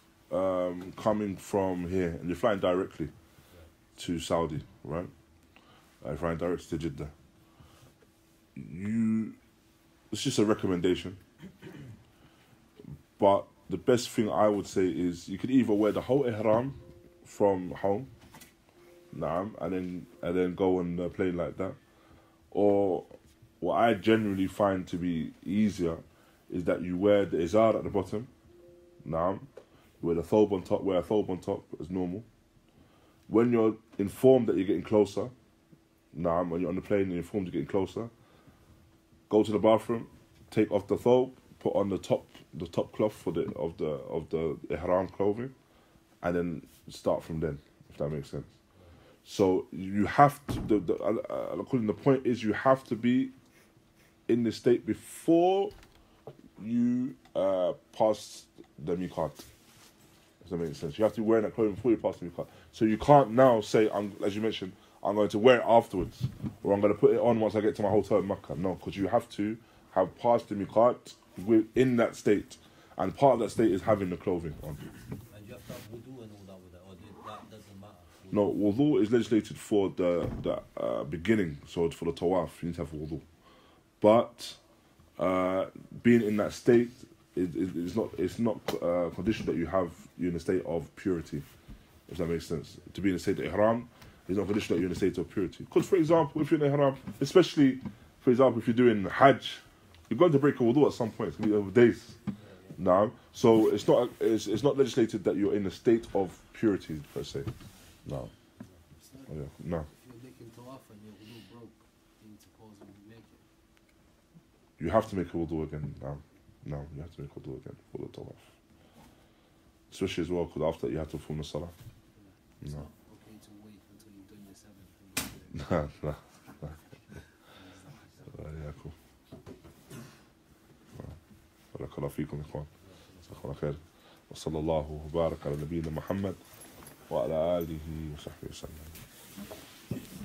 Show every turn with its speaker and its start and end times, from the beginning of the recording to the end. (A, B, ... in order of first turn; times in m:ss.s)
0:00.3-0:03.1 A
0:04.0-0:05.1 A
0:06.0-0:07.1 A
0:08.6-0:09.4 A
0:10.1-0:11.2 A
0:13.2-0:18.1 A
0:19.1-0:21.8 A
0:22.5-0:28.3 A
0:29.0-0:29.5 A
0:30.0-0:32.2 A
0:33.3-0:35.3 A
0:36.1-0:38.1 A
0:39.3-0:45.5 A
0:46.2-0:48.5 A
0:49.2-0:53.3 A
0:54.3-0:55.7 A
0:56.6-0:59.4 A
1:00.4-1:14.8 A
1:15.3-1:18.5 B
1:18.3-1:23.2 A
1:24.0-1:24.6 A
1:25.2-1:31.4 A
1:32.1-1:42.2 A
1:42.4-1:42.8 B
1:42.8-1:47.5 A
1:48.0-1:48.3 A
1:48.6-1:49.3 B
1:49.0-1:49.3 C
1:49.3-1:49.9 A
1:49.9-1:53.4 C
1:54.8-1:58.5 A
1:59.9-2:01.7 A
2:02.2-2:05.8 C
2:05.5-2:06.7 A
2:06.5-2:06.8 C
2:07.4-2:08.4 C
2:08.3-2:09.0 A
2:11.7-2:12.7 A
2:12.7-2:13.8 B
2:13.3-2:16.4 A
2:17.1-2:18.9 A